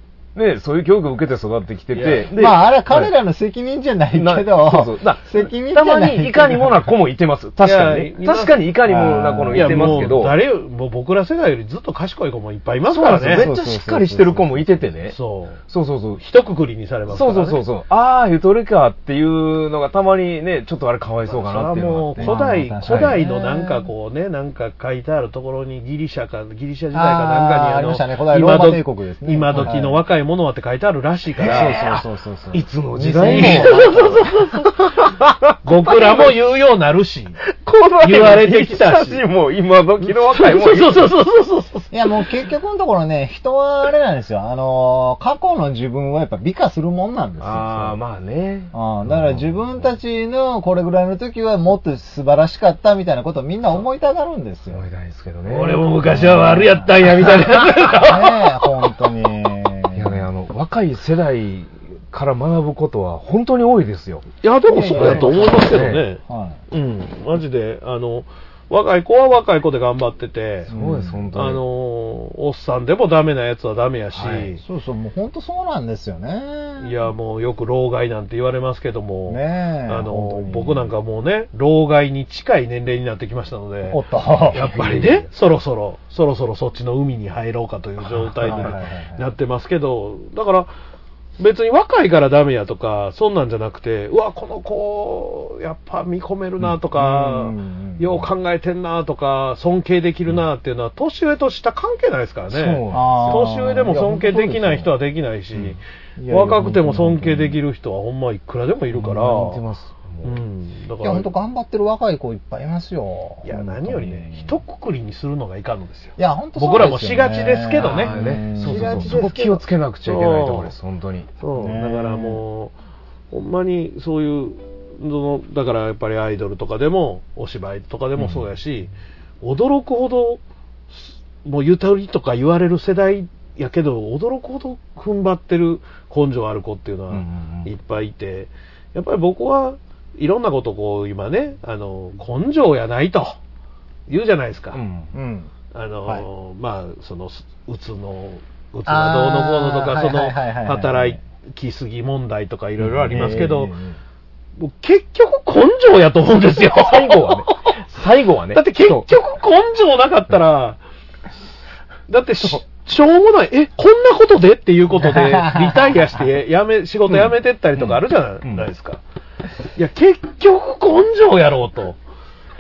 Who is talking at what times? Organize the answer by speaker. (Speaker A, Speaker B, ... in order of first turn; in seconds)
Speaker A: 0.3-3.1, 4.1-10.4, 12.9-16.2, 17.1-23.2, 31.4-32.0, 32.5-36.3, 37.5-41.1, 47.4-49.9, 54.7-56.2, 59.9-64.3, 64.9-66.1, 70.7-71.6, 84.5-85.2, 102.5-103.7, 108.9-110.4, 117.8-121.3, 128.2-128.4, 137.1-137.7, 144.7-145.1, 152.8-153.5, 156.7-159.2, 167.1-168.7
Speaker B: 1.9-2.3, 7.6-8.7, 9.5-13.5, 15.1-15.6, 16.2-17.6, 21.3-31.8, 33.2-34.7, 35.6-37.4, 38.0-39.2, 40.1-41.9, 55.5-58.7, 64.4-70.7, 71.3-74.6, 76.8-84.0, 84.5-90.7, 91.4-109.6, 110.2-111.3, 113.4-118.1, 118.7-119.3, 120.1-120.7, 121.4-122.7, 123.3-130.4, 130.9-143.4, 144.1-144.8, 145.7-153.7, 154.6-157.4, 158.5-160.8, 162.1-169.0, 169.8-172.0
Speaker C: 2.3-6.9, 8.9-10.2, 13.2-15.0, 22.2-23.9, 26.9-30.0, 31.4-34.2, 41.9-48.0, 48.7-54.9, 56.1-57.2, 57.9-60.3, 64.7-66.6, 70.7-71.3, 74.3-77.0, 79.3-80.9, 83.9-84.7, 88.3-89.3, 96.9-98.3, 102.9-104.9, 106.2-107.6, 111.0-114.6, 116.2-119.6, 121.5-122.4, 145.1-145.5, 148.9-151.2, 153.1-154.0, 165.0-166.0